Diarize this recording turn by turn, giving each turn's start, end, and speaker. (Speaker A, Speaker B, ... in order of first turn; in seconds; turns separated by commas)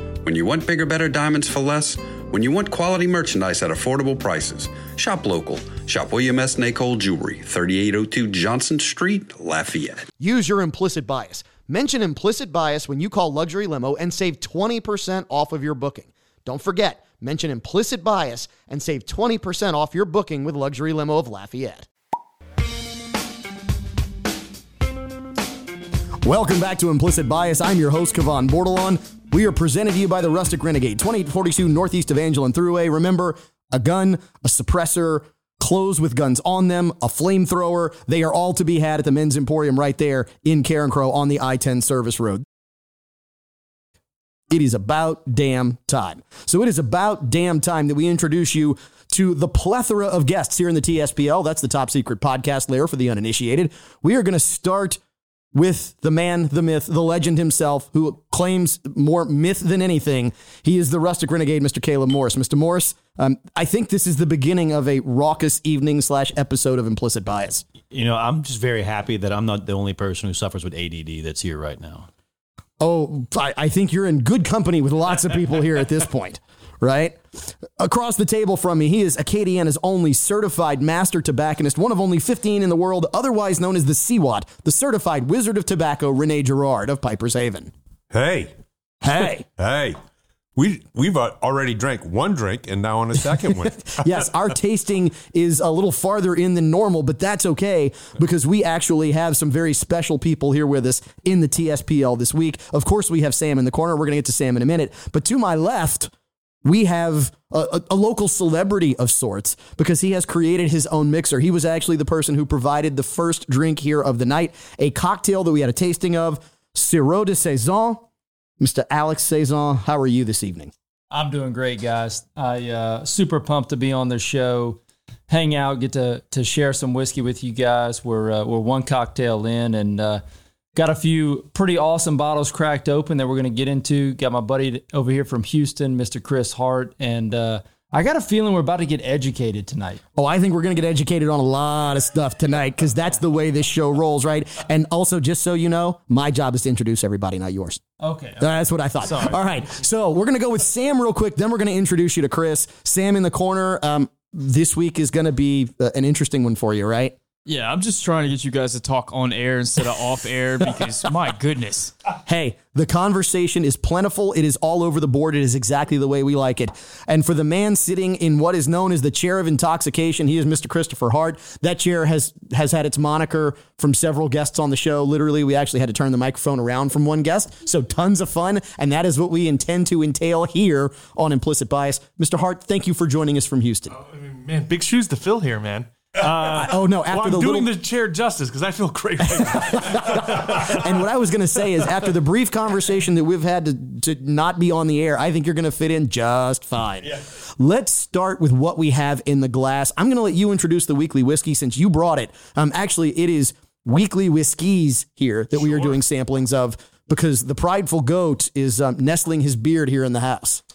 Speaker A: 0.2-10.1, Speaker B: 10.2-21.9, Speaker B: 26.2-42.5, Speaker B: 44.5-55.0, Speaker B: 55.5-67.7, Speaker C: 67.9-72.1, Speaker B: 72.8-87.7, Speaker D: 88.1-88.5, Speaker B: 89.0-89.5, Speaker D: 89.6-90.0, Speaker D: 90.6-94.3, Speaker B: 93.7-106.1, Speaker B: 106.6-118.1, Speaker B: 118.6-120.7, Speaker E: 121.1-130.2, Speaker E: 130.7-140.0, Speaker B: 140.2-147.8, Speaker E: 148.0-148.4, Speaker B: 148.4-157.2, Speaker E: 149.1-149.4, Speaker F: 157.4-161.9, Speaker B: 162.3-183.9, Speaker G: 183.9-190.9, Speaker B: 186.4-187.7, Speaker B: 189.3-210.6